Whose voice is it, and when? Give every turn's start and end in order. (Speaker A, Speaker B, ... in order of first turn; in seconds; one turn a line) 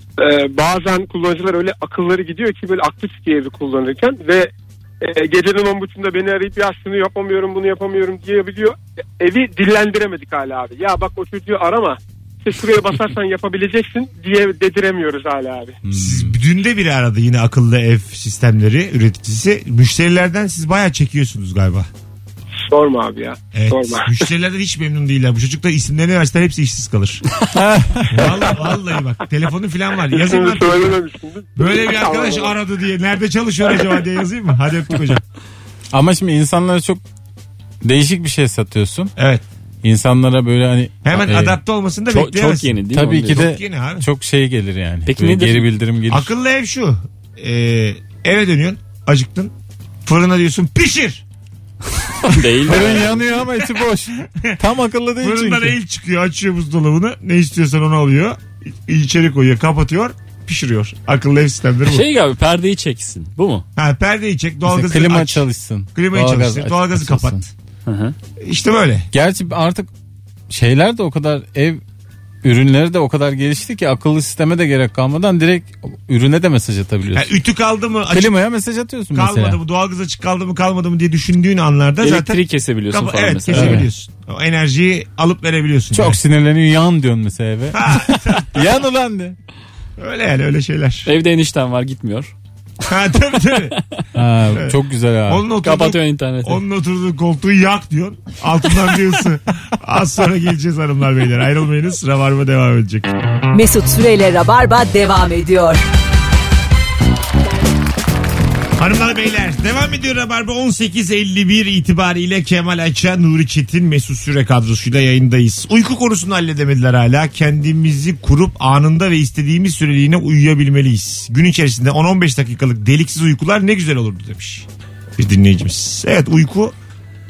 Speaker A: 0.2-15.8
Speaker B: 15.8-16.4
Speaker C: 15.9-21.9
Speaker A: 22.7-24.1
Speaker C: 23.5-27.2
Speaker B: 27.5-28.4
Speaker C: 28.1-31.0
Speaker A: 30.1-32.6
Speaker C: 31.6-35.2
Speaker B: 35.9-37.0
Speaker B: 37.8-39.1
Speaker C: 39.2-39.4
Speaker B: 39.8-41.6
Speaker C: 41.0-44.1
Speaker D: 42.1-43.5
Speaker B: 42.9-46.3
Speaker D: 45.1-45.7
Speaker C: 46.1-49.5
Speaker C: 50.0-51.2
Speaker D: 52.2-53.3
Speaker B: 52.6-55.8
Speaker C: 55.2-62.0
Speaker D: 61.9-63.7
Speaker C: 63.8-65.4
Speaker B: 64.7-67.5
Speaker C: 66.0-67.5
Speaker D: 67.9-68.2
Speaker C: 68.4-69.1
Speaker B: 69.1-69.9
Speaker B: 70.5-71.8
Speaker B: 72.4-77.4
Speaker C: 77.1-78.3
Speaker B: 78.1-79.6
Speaker C: 79.1-86.2
Speaker D: 82.0-83.9
Speaker B: 83.5-83.9
Speaker B: 85.9-89.4
Speaker C: 87.7-88.6
Speaker C: 90.0-91.1
Speaker D: 91.1-92.3
Speaker C: 92.8-93.8
Speaker B: 94.2-95.5
Speaker C: 94.5-94.8
Speaker C: 95.3-103.1
Speaker D: 95.6-96.6
Speaker E: 103.5-105.8
Speaker C: 108.8-124.7
Speaker C: 125.2-126.7